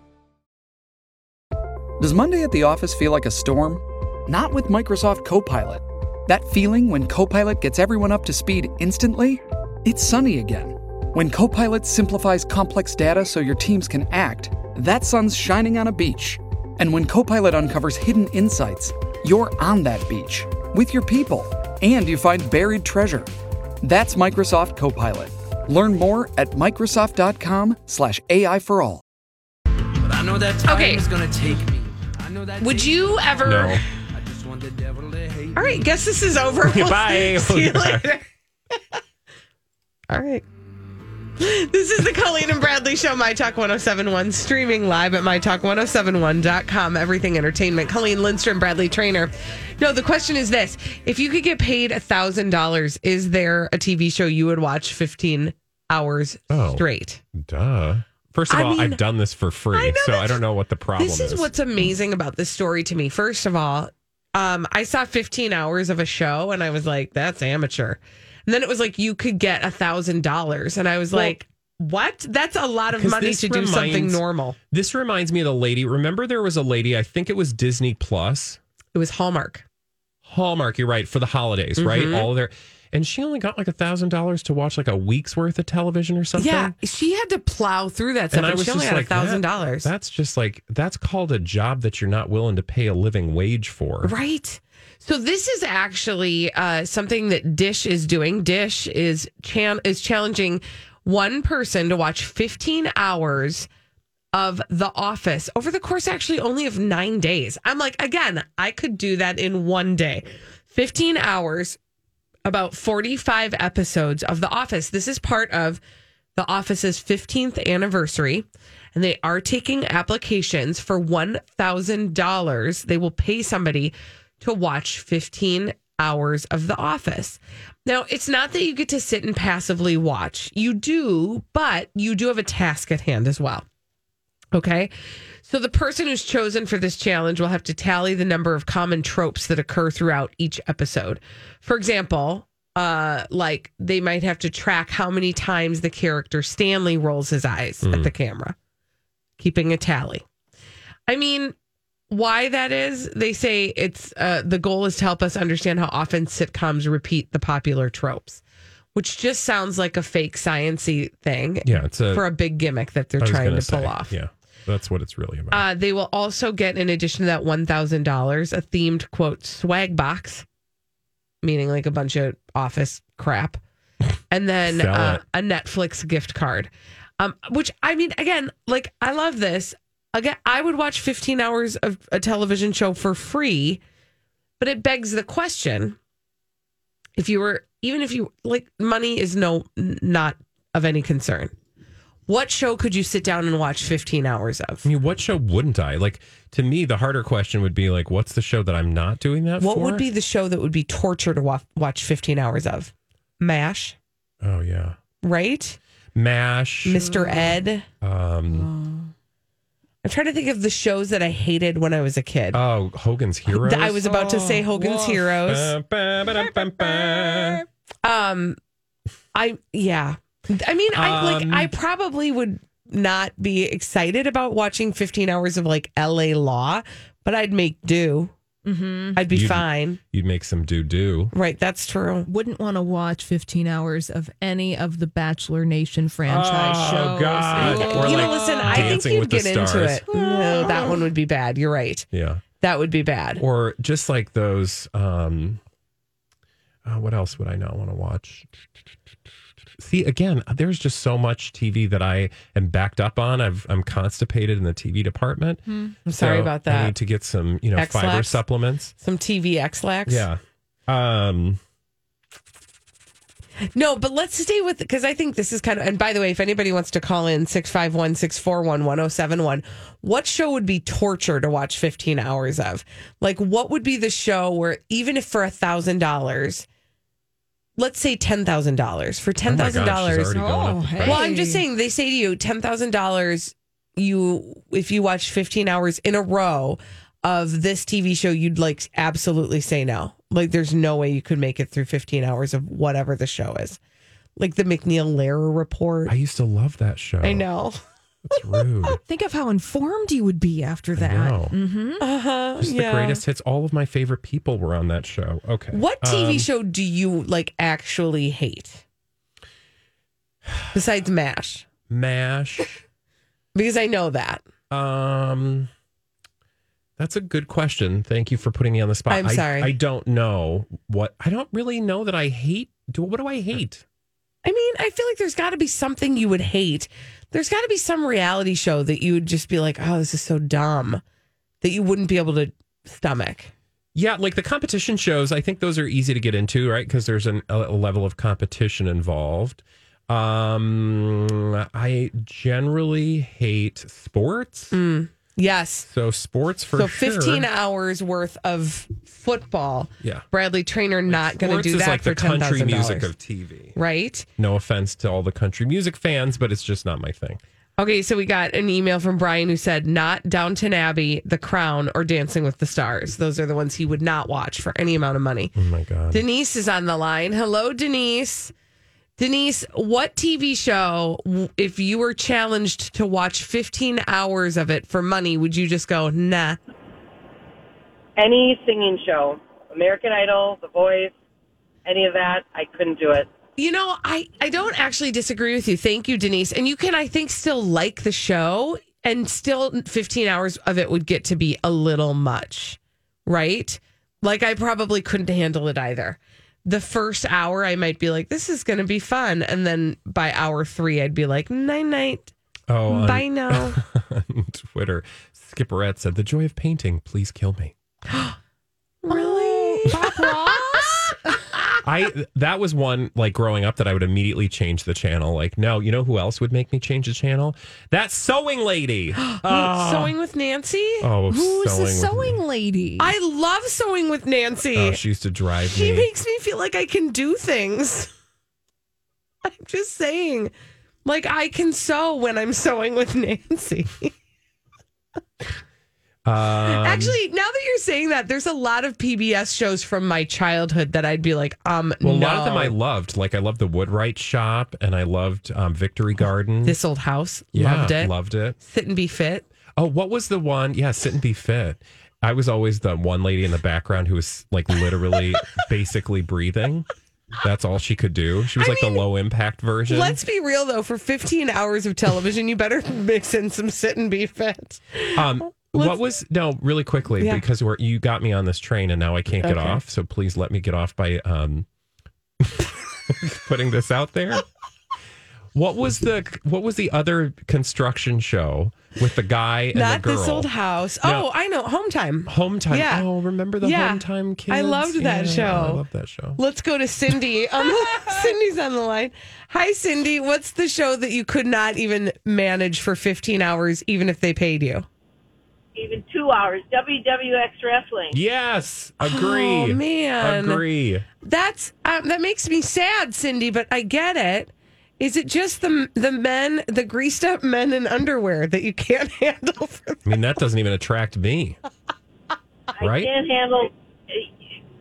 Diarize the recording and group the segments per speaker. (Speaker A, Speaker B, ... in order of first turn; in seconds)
Speaker A: 2.0-23.3, 23.8-29.0
Speaker B: 30.0-35.9
Speaker C: 30.6-31.0, 32.6-33.6, 35.5-38.2, 40.1-40.4, 41.4-57.2, 58.5-59.0, 59.7-60.4, 61.0-74.6, 78.9-79.6, 81.8-82.3, 86.3-89.9, 94.0-103.7, 104.3-111.8, 112.4-115.8, 116.3-133.6, 134.5-148.6, 149.4-150.2, 151.1-151.5, 152.1-158.4, 158.9-164.1, 165.5-170.4, 171.4-173.6, 174.3-183.8, 184.6-186.0, 187.2-191.5, 192.3-194.9, 199.6-203.9, 205.2-205.8, 206.8-207.9, 210.0-212.6, 213.5-215.7, 218.0-218.6, 219.3-228.3, 229.2-230.0, 231.3-232.3, 237.6-242.1, 242.6-243.4, 256.0-256.9, 257.7-258.4, 259.0-260.3, 263.7-276.6, 277.8-280.3, 281.0-293.8, 294.4-296.1, 297.2-297.8, 302.0-303.2, 305.7-308.8, 310.7-311.6, 313.5-314.4, 319.1-319.7, 324.4-331.0, 331.6-333.5, 344.7-345.9, 346.7-353.1, 353.7-354.3, 357.8-365.5, 366.1-368.5, 369.2-376.6, 383.6-402.3, 402.9-403.8, 408.1-408.4, 409.0-410.9, 419.1-421.1, 423.0-425.0, 425.6-428.1, 429.4-430.5, 431.0-434.1, 436.5-442.8, 446.6-449.4, 458.5-459.1, 459.9-466.0, 467.2-467.4, 469.4-469.8, 479.7-483.1, 483.6-485.8, 486.4-494.9, 499.0-500.6, 501.2-510.1
Speaker D: 33.4-33.8, 36.7-38.1, 56.5-56.8, 57.3-61.5, 72.9-78.6, 80.2-86.7, 88.3-94.1, 147.8-148.1, 161.6-162.2, 163.2-165.6, 174.7-175.2, 194.8-200.0, 204.4-205.0, 206.1-206.9, 208.0-208.7, 212.5-214.0, 215.4-217.6, 220.9-221.7, 229.3-231.3, 236.3-240.2, 242.1-242.4, 243.4-245.6, 246.8-248.5, 249.8-258.9, 260.1-261.6, 279.4-281.1, 296.1-297.4, 298.3-298.9, 301.0-301.5, 302.6-306.5, 311.9-312.8, 314.7-315.7, 317.0-323.8, 333.9-344.7, 345.9-347.5, 351.1-353.7, 354.4-357.4, 365.6-366.2, 402.7-407.7, 411.8-420.1, 421.0-422.4, 424.7-426.1, 436.2-437.2, 442.0-446.7, 447.5-448.6, 449.8-456.9, 457.4-460.2, 465.1-471.7, 472.4-474.4, 475.5-480.5, 482.2-486.4, 495.8-501.0, 510.1-511.6, 512.8-513.6
Speaker E: 206.9-207.6, 208.5-209.1, 214.1-215.3, 216.8-217.5, 228.6-229.2, 232.2-239.0, 240.1-241.0, 255.7-255.9, 280.3-281.6, 298.9-302.0, 409.1-411.4, 421.2-423.1
Speaker F: 378.2-381.1, 381.8-383.3, 495.8-496.6, 512.9-513.6